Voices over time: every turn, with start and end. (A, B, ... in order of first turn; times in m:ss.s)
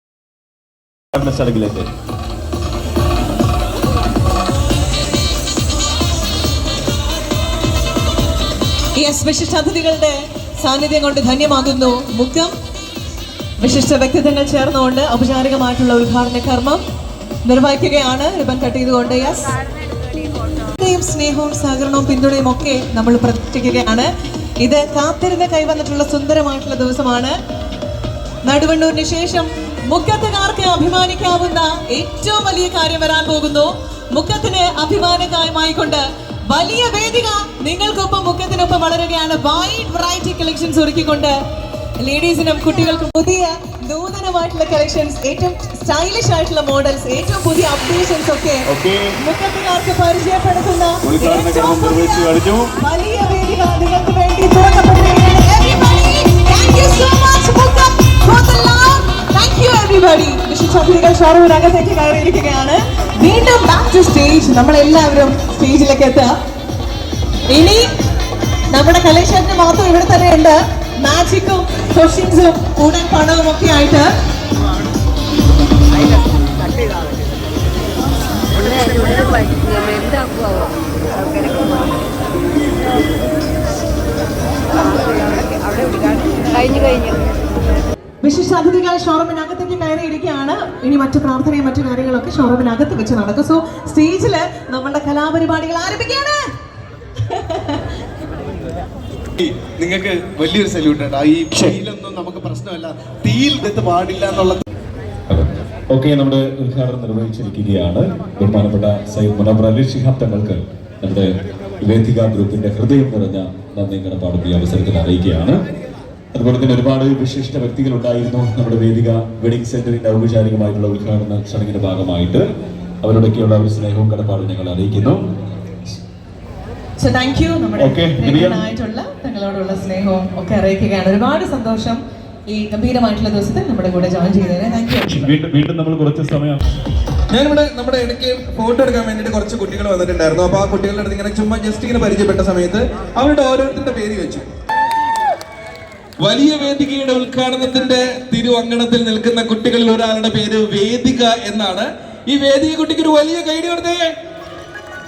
0:01.1-0:01.9 A
0:09.0-0:12.5 B
0:13.6-0:16.8 B
0:17.4-0:19.6 B
0:20.8-0:24.1 B
0:24.6-0:27.3 B
0:28.4-0:41.3 B
0:42.0-0:48.7 B
0:48.7-0:49.2 A
0:49.2-0:52.3 B
0:51.0-0:52.7 A
0:52.8-1:06.3 B
1:07.5-1:07.8 B
1:08.7-1:14.1 B
1:18.7-1:20.7 C
1:21.6-1:21.8 C
1:25.0-1:27.2 C
1:28.2-1:36.4 B
1:37.3-1:37.8 B
1:39.4-1:44.6 D
1:45.3-1:55.6 A
1:56.3-2:02.5 A
2:03.0-2:05.3 A
2:07.0-2:15.2 B
2:07.8-2:08.6 A
2:15.1-2:16.6 A
2:17.3-2:24.4 E
2:26.2-2:34.1 E